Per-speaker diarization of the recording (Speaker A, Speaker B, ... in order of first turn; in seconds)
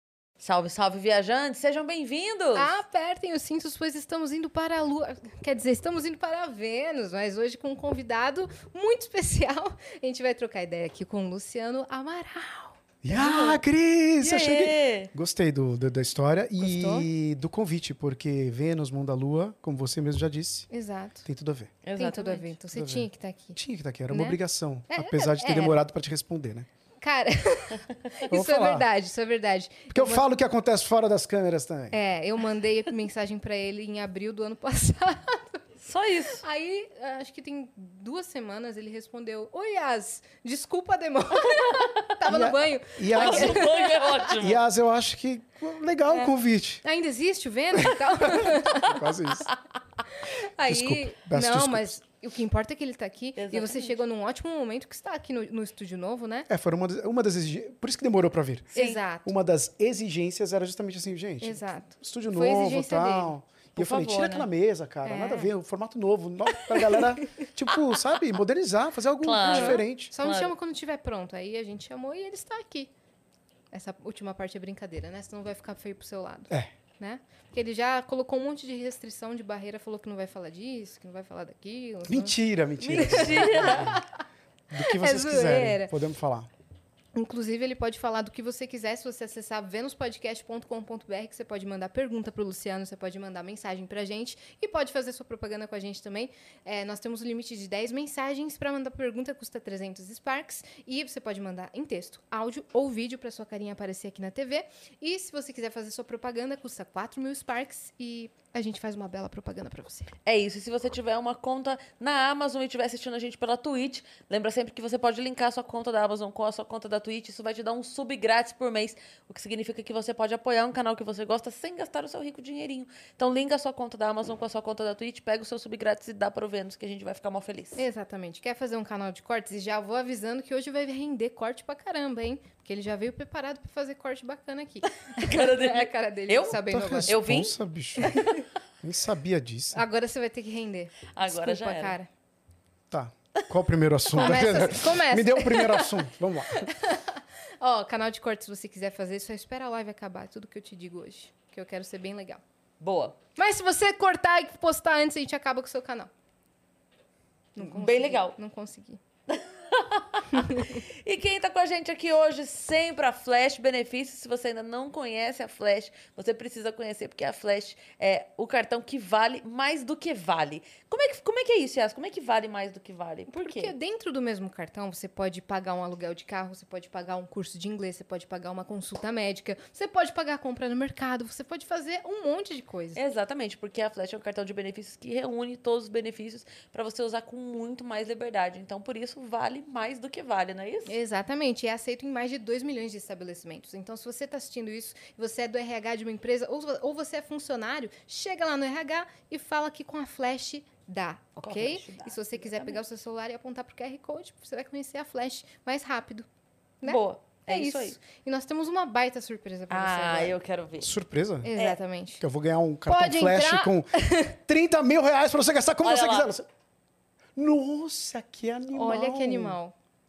Speaker A: 0.4-2.8, 13.1-13.6, 14.2-15.1, 21.8-22.6, 35.8-36.4, 43.1-44.6, 53.4-54.0, 63.8-64.5, 69.2-70.5, 82.8-84.0, 110.2-127.8, 135.1-137.6, 141.1-141.9, 152.8-153.2, 157.6-158.4, 159.3-173.7, 182.9-190.9, 201.4-202.8, 206.8-208.0, 209.7-210.9, 215.8-216.3
Speaker B: 2.5-12.8, 16.6-17.1, 20.7-21.3, 22.0-23.6, 24.1-24.4, 24.9-25.8, 27.0-30.2, 31.9-35.6, 36.4-44.2, 46.1-49.0, 50.1-56.5, 58.7-59.3, 61.4-63.4, 65.0-65.5, 66.8-67.1, 69.4-72.9, 73.7-82.4, 83.0-84.1, 84.8-85.9, 87.2-110.1, 127.8-137.2, 138.0-138.3, 139.8-142.1, 144.1-152.4, 153.4-156.1, 157.6-159.0, 160.3-160.8, 173.3-183.0, 190.9-206.3, 206.8-210.4, 211.4-212.2, 212.9-214.4, 218.7-219.8
Speaker C: 13.0-20.7, 21.2-21.8, 22.7-26.7, 28.3-28.9, 29.9-32.0, 42.3-43.7, 44.3-46.8, 47.8-49.5, 50.6-52.0, 56.5-70.1, 82.1-84.0, 84.7-86.5, 136.5-138.2, 138.8-139.8, 142.9-146.7, 210.8-211.5, 212.2-216.5, 217.4-219.6